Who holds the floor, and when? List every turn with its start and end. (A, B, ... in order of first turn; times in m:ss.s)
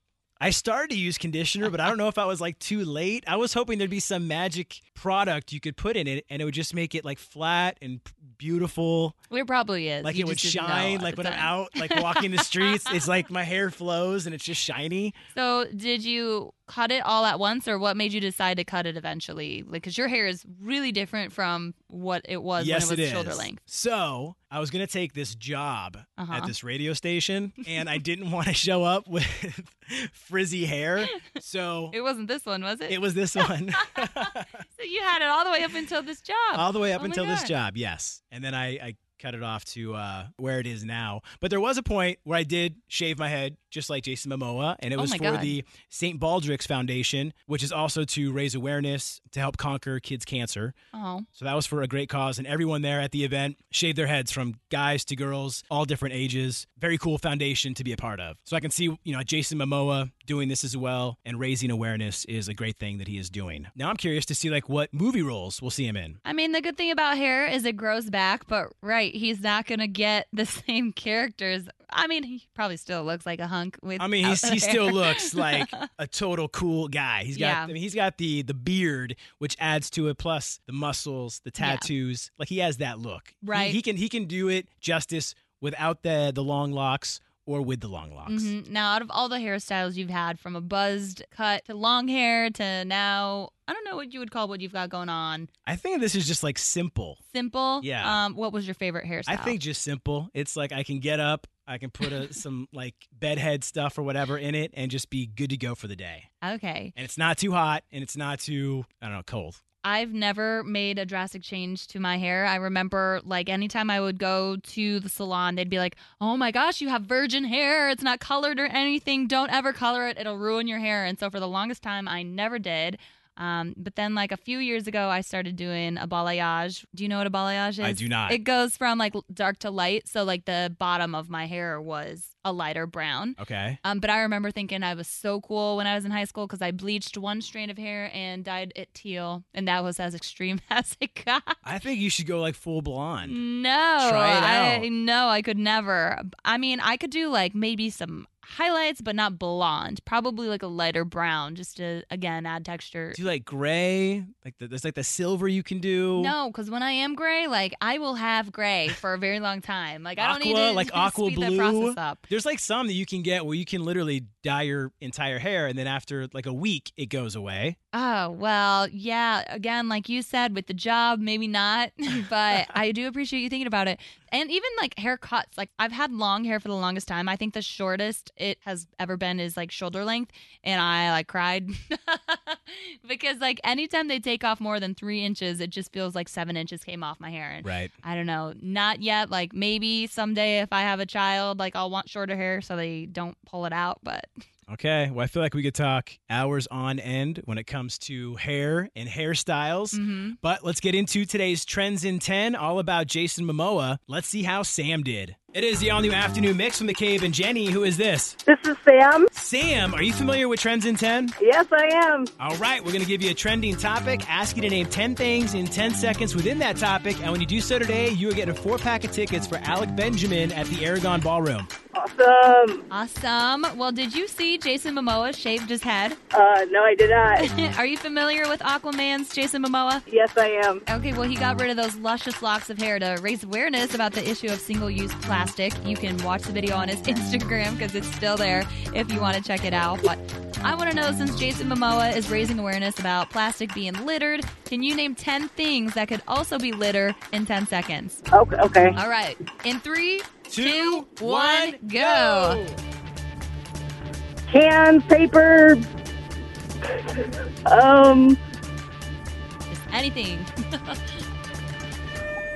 0:00.4-0:09.2 A
0:09.3-0:13.1 B
0:10.0-0:15.2 A
0:15.4-0:23.6 B
0:22.6-0:32.0 A
0:26.2-0:26.5 B
0:31.9-0:37.5 B
0:32.9-0:34.6 A
0:36.6-0:50.8 A
0:45.0-0:45.6 B
0:50.9-0:51.3 B
0:51.3-1:06.2 A
1:06.2-1:15.8 B
1:14.0-1:28.5 A
1:17.3-1:17.7 B
1:21.6-1:21.9 B
1:23.4-1:23.8 B
1:28.3-1:35.5 B
1:35.7-1:37.2 A
1:37.3-1:39.6 B
1:37.8-1:38.2 A
1:39.3-1:46.3 A
1:46.4-1:46.9 B
1:47.0-1:49.6 A
1:49.8-2:21.6 B
2:07.8-2:08.4 A
2:13.4-2:13.8 A
2:21.6-2:23.4 A
2:23.2-2:33.2 B
2:24.0-2:24.9 A
2:33.2-2:36.4 A
2:36.2-2:42.2 B
2:40.2-2:47.8 A
2:47.9-3:14.3 B
3:07.6-3:07.9 A
3:14.7-3:28.4 A
3:19.9-3:20.4 B
3:28.5-3:29.3 C
3:29.3-3:31.4 A
3:31.4-3:32.3 C
3:32.4-3:41.7 A
3:41.9-3:42.8 C
3:42.9-3:46.2 B
3:46.3-3:47.5 C
3:47.4-3:50.0 B
3:50.1-3:50.8 C
3:50.9-4:08.2 B
4:08.3-4:09.0 C
4:09.0-4:12.6 B
4:10.5-4:12.8 A
4:14.5-4:15.8 C
4:16.9-4:18.4 C
4:19.7-4:21.2 B